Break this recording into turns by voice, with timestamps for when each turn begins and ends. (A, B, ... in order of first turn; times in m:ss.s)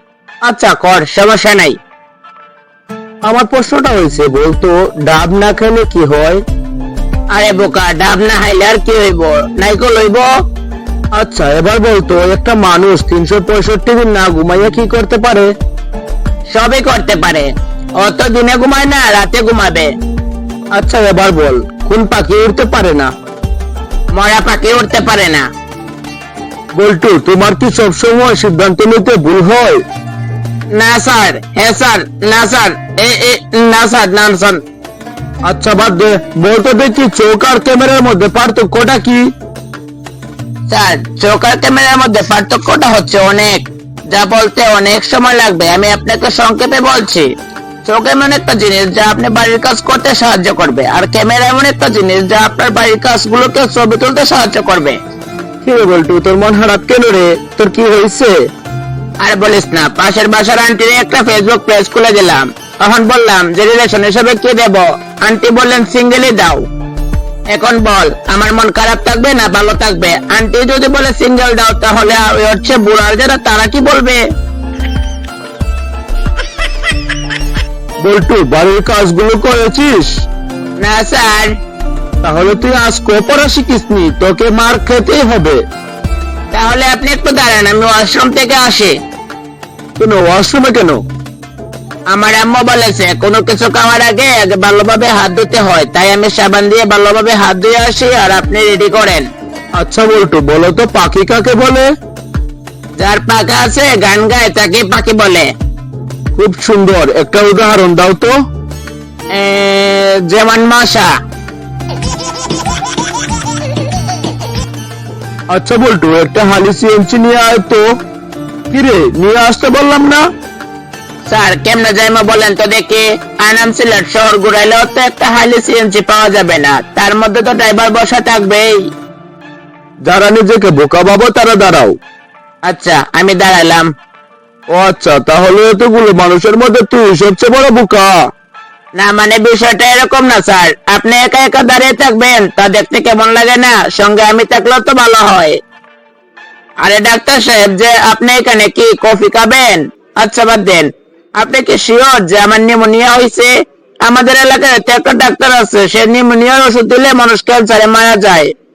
0:00.4-0:01.8 A
0:03.3-0:06.4 B
0:07.3-0:10.3 A
0:11.1-0:15.5 B
0:16.5-0:19.9 A
0:20.7-0:23.1 B
0:24.1-0:25.5 A
0:26.8-0:29.8 B
0:30.7-0:34.6 A
0:35.4-0:39.3 B
0:40.7-0:47.3 A
0:47.8-0:55.0 A
0:55.6-0:58.4 B
0:59.2-1:06.6 A
1:07.5-1:14.2 A
1:18.0-1:20.1 B
1:20.8-1:21.6 A
1:22.2-1:25.6 B
1:26.5-1:29.0 A
1:30.0-1:31.0 B
1:32.1-1:39.3 A
1:39.8-1:41.9 B
1:43.0-1:45.5 A
1:46.3-1:48.4 B
1:49.3-1:51.1 A
1:55.5-1:57.9 B
1:58.7-2:00.2 B
2:01.3-2:08.8 A
2:10.0-2:12.0 B
2:12.6-2:13.9 A
2:14.7-2:18.2 B
2:19.0-2:25.6 A
2:26.8-2:33.5 A
2:34.0-2:38.5 A